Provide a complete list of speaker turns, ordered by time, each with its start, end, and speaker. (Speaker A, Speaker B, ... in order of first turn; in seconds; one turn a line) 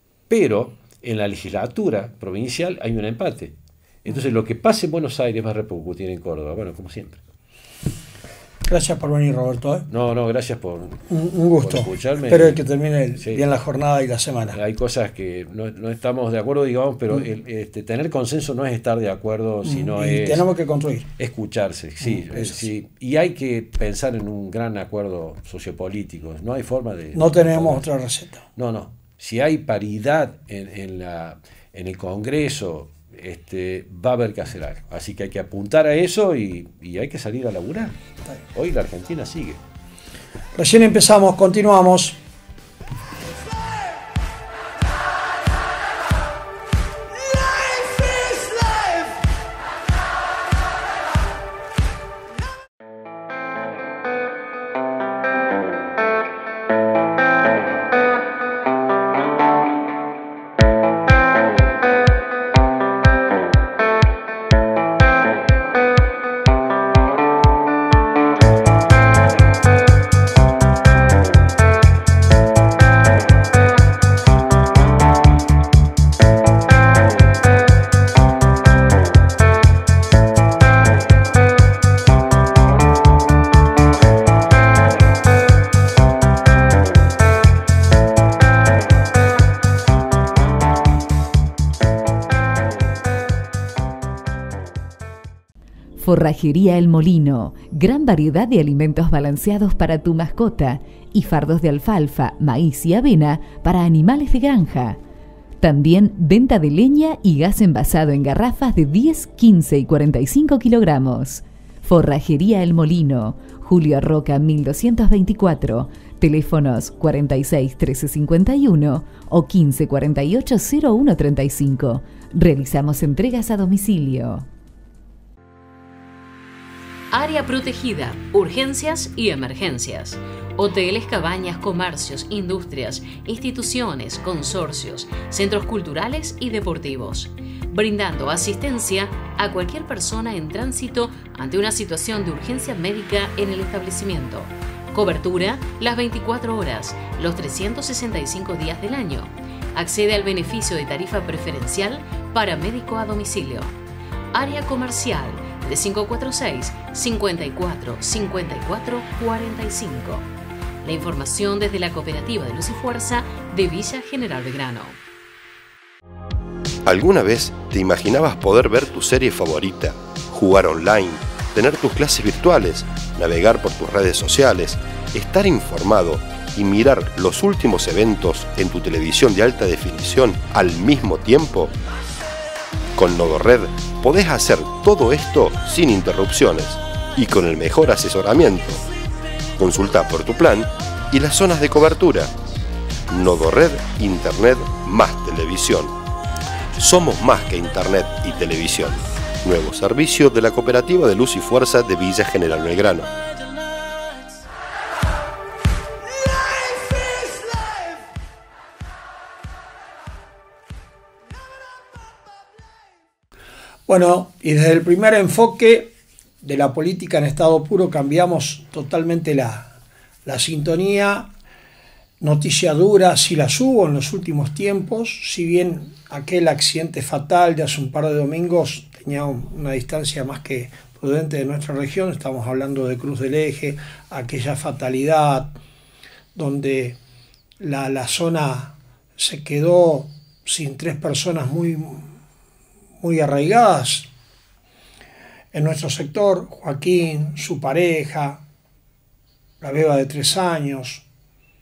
Speaker A: 0.3-7.2
Speaker B: 8.7-9.9
Speaker A: 9.9-11.1
Speaker B: 11.1-14.6
Speaker A: 11.6-12.6
Speaker A: 13.2-13.4
Speaker A: 14.5-20.5
Speaker B: 19.6-21.1
Speaker A: 21.2-27.8
Speaker B: 22.0-22.6
Speaker B: 27.1-28.4
Speaker A: 28.6-37.9
Speaker A: 38.5-39.6
Speaker B: 40.5-42.2
Speaker C: 96.0-105.0
Speaker C: 105.6-124.5
Speaker D: 127.1-153.7
Speaker D: 154.3-160.3
Speaker D: 160.8-165.0
Speaker E: 166.8-181.7
Speaker E: 183.0-188.8
Speaker E: 189.6-192.3
Speaker E: 193.1-195.9
Speaker E: 196.8-203.1
Speaker B: 213.9-219.7
Speaker B: 220.2-221.3
Speaker B: 222.2-235.6
Speaker B: 236.3-237.0
Speaker B: 237.6-242.1
Speaker B: 243.0-244.1
Speaker B: 245.5-248.4
Speaker B: 249.6-251.0